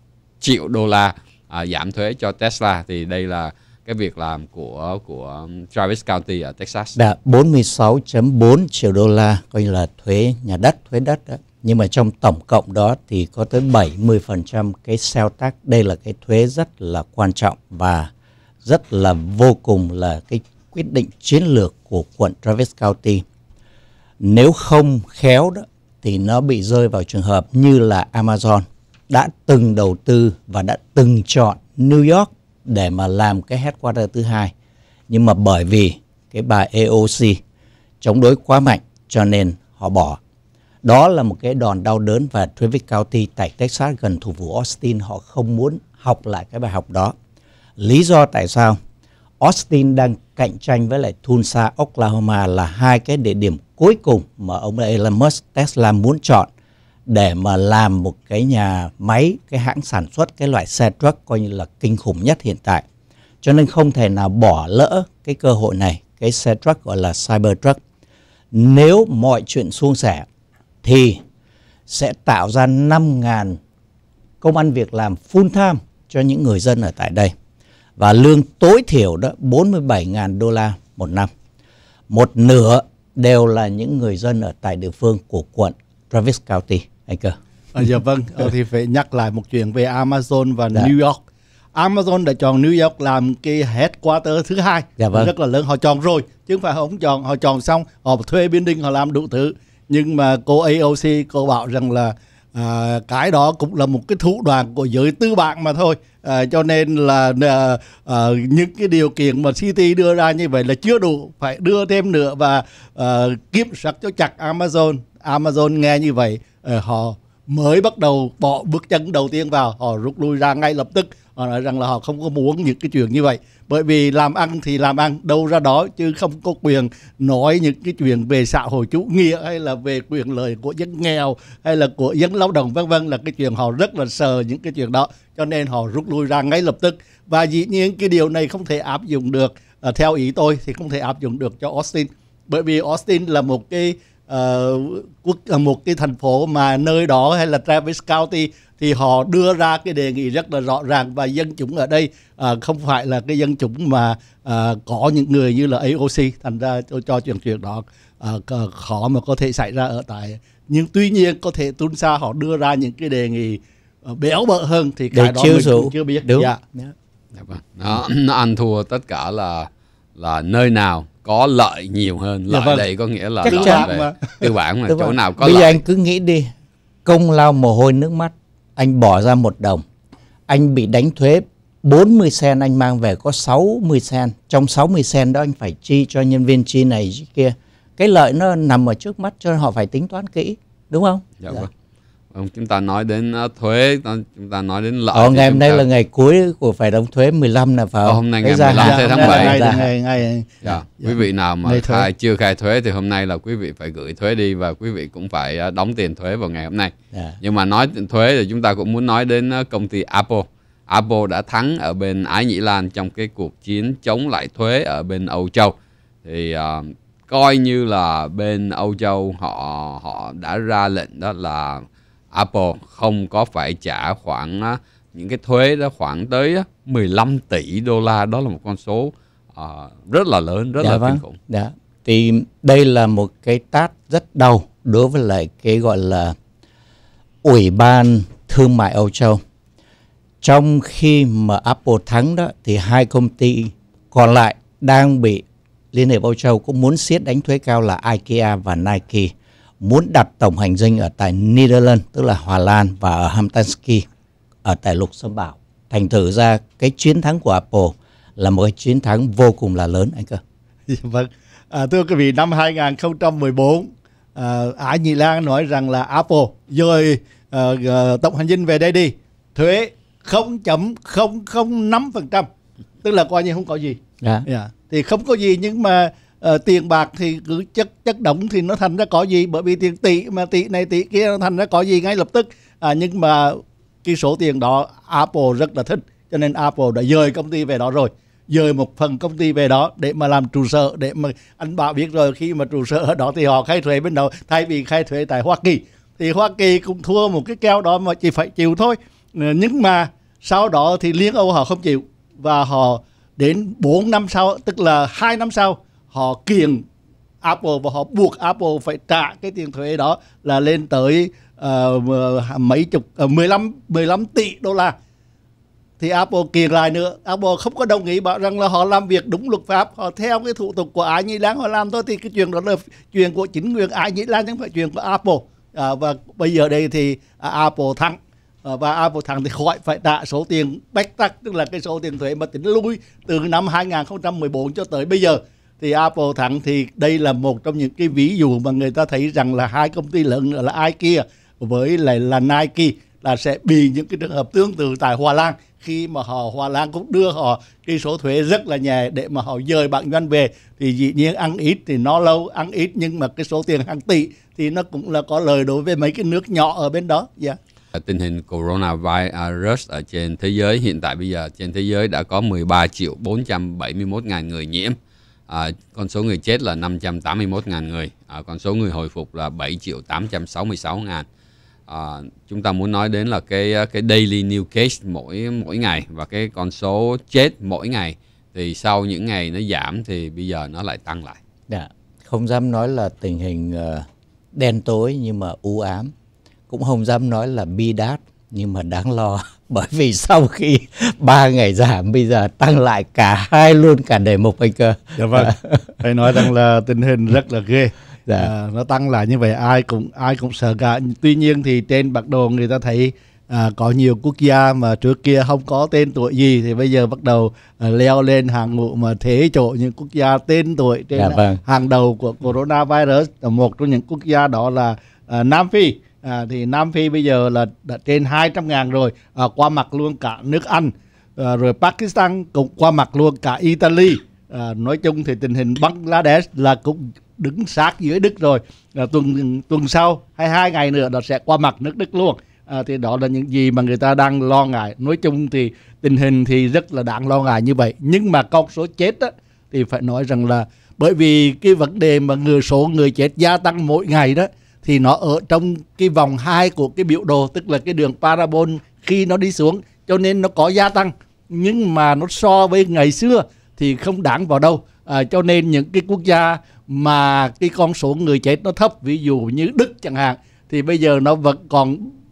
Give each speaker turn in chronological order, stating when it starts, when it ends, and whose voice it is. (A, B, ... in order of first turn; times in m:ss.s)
0:00.4-0:07.0 A
0:07.0-0:18.1 B
0:18.6-0:23.2 B
0:24.2-0:34.5 B
0:35.1-0:37.4 B
0:38.0-0:40.2 B
0:40.8-0:47.1 B
0:47.8-0:48.8 B
0:49.4-0:56.5 B
0:57.1-1:02.8 B
1:03.4-1:07.8 B
1:08.5-1:10.2 B
1:10.8-1:11.2 B
1:11.9-1:13.6 B
1:14.4-1:17.3 B
1:18.0-1:21.3 B
1:22.1-1:27.4 B
1:27.7-1:31.2 C
1:31.7-2:46.6 C
1:35.0-1:35.3 B
2:45.1-2:46.9 B
2:47.3-2:55.8 A
2:52.5-2:52.9 C
2:53.4-2:53.9 B
2:53.4-2:54.4 C
2:54.9-2:56.5 B
2:57.0-2:59.8 B
3:00.5-3:11.7 B
3:11.4-3:11.7 A
3:12.3-3:15.8 A
3:15.1-3:19.9 B
3:18.1-3:19.6 A
3:18.8-3:22.1 C
3:20.6-3:51.4 A
3:50.8-3:56.4 B
3:57.4-3:59.4 B
4:00.4-4:14.1 B
4:14.6-4:20.4 B
4:20.9-4:32.5 C
4:33.0-5:06.8 C
5:07.4-5:15.0 C
5:16.0-5:57.6 C
5:57.9-6:05.0 A
6:05.5-6:11.2 A
6:11.9-6:21.4 A
6:21.7-6:26.1 B
6:26.7-6:36.5 B
6:35.2-7:42.1 C
6:51.1-6:51.6 B